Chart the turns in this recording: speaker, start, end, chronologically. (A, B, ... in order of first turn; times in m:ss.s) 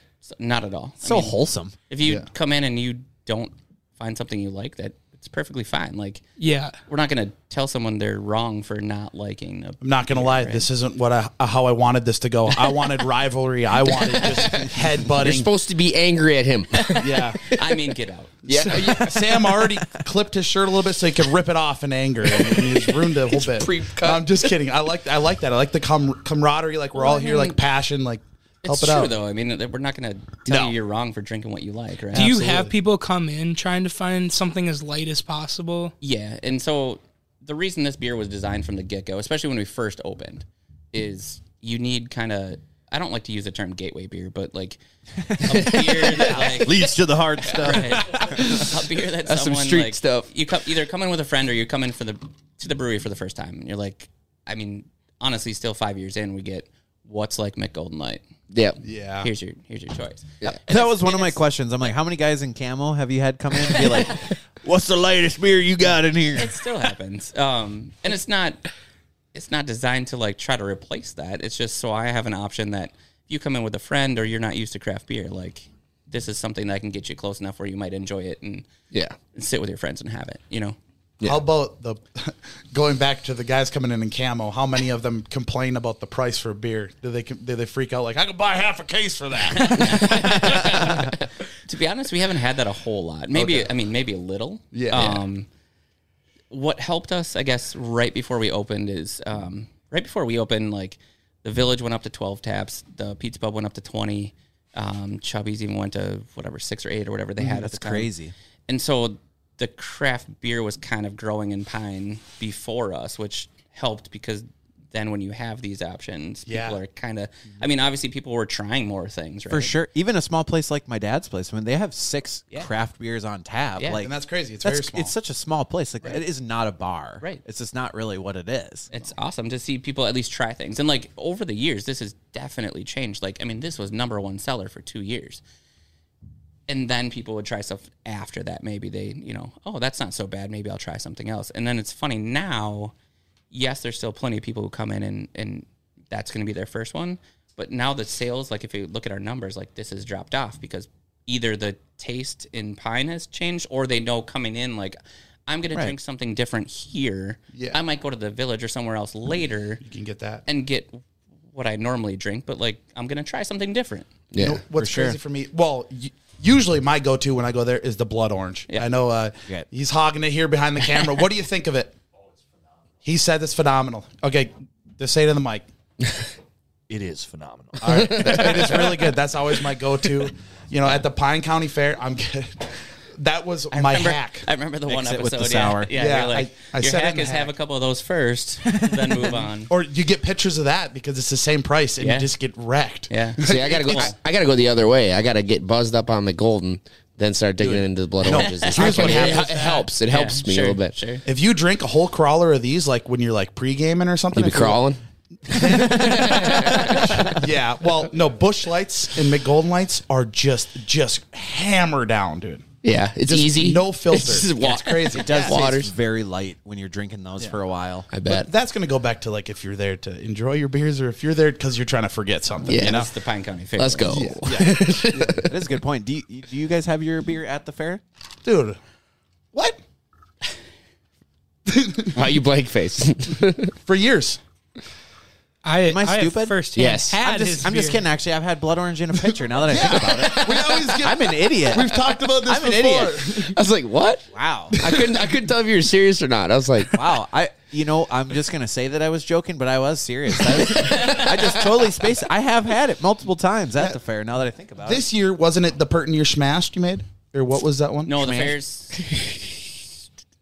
0:00.2-0:01.4 A
0:01.0-0:01.8 B
0:01.9-0:06.2 A
0:02.0-0:02.3 C
0:06.4-0:06.8 D
0:06.9-0:10.7 A
0:09.8-0:15.5 C
0:13.9-0:17.7 E
0:16.8-0:18.8 A
0:17.0-0:17.5 C
0:18.4-0:19.7 E
0:18.5-0:29.1 C
0:22.3-0:24.5 E
0:27.0-0:27.6 A
0:28.6-0:32.4 A
0:30.5-0:30.8 C
0:32.1-0:35.9 D
0:32.1-0:32.7 C
0:36.0-0:44.8 A
0:45.3-0:48.5 B
0:45.4-0:58.2 A
0:45.5-0:46.1 E
0:48.2-0:48.7 E
0:49.3-0:50.3 E
0:58.5-0:58.8 E
0:58.8-0:59.3 C
0:59.2-1:01.4 A
1:00.7-1:06.6 B
1:06.4-1:08.6 A
1:09.3-1:18.6 A
1:19.4-1:20.8 A
1:21.2-1:31.1 C
1:29.5-1:35.5 A
1:33.4-1:33.7 C
1:34.7-1:35.2 C
1:36.5-1:48.1 A
1:47.4-1:48.3 B
1:48.7-1:59.7 A
1:56.5-1:56.8 C
1:59.5-2:04.1 B
2:03.8-2:04.0 A
2:04.0-2:05.1 C
2:04.6-2:08.9 B
2:08.9-2:15.4 A
2:16.7-2:22.9 A
2:23.5-2:39.8 A
2:37.5-2:37.8 C
2:39.8-2:40.4 C
2:40.5-2:44.1 A
2:44.3-2:44.6 E
2:44.4-2:52.0 C
2:44.8-2:45.2 B
2:53.0-2:55.6 C
2:57.0-2:57.7 B
2:57.8-2:58.8 E
2:57.8-3:04.5 C
3:03.7-3:09.7 A
3:04.9-3:05.9 B
3:05.9-3:07.5 C
3:09.3-3:14.1 C
3:12.0-3:12.3 A
3:13.1-3:14.2 A
3:13.4-3:21.0 E
3:17.6-3:19.9 C
3:18.3-3:19.5 A
3:20.1-3:21.2 A
3:21.3-3:24.8 C
3:24.3-3:27.5 E
3:25.5-3:32.7 C
3:32.8-3:35.9 E
3:33.3-3:35.6 C
3:35.1-3:38.1 B
3:38.1-3:38.5 E
3:38.3-3:43.1 C
3:42.7-3:43.1 E
3:42.7-3:44.4 A
3:43.8-3:45.6 E
3:44.1-3:45.5 C
3:45.4-3:48.0 B
3:48.4-3:48.8 C
3:49.5-3:49.8 C
3:51.7-3:52.2 C
3:52.1-3:53.7 E
3:53.8-3:54.4 C
3:55.6-3:58.1 D
3:55.9-3:56.6 B
3:56.8-3:57.2 E
3:57.2-4:03.2 B
3:59.7-4:03.6 C
3:59.8-4:00.8 E
4:03.4-4:07.0 E
4:04.3-4:04.8 B
4:06.9-4:15.1 B
4:10.8-4:11.1 E
4:14.8-4:18.2 C
4:18.1-4:19.1 A
4:18.2-4:18.6 B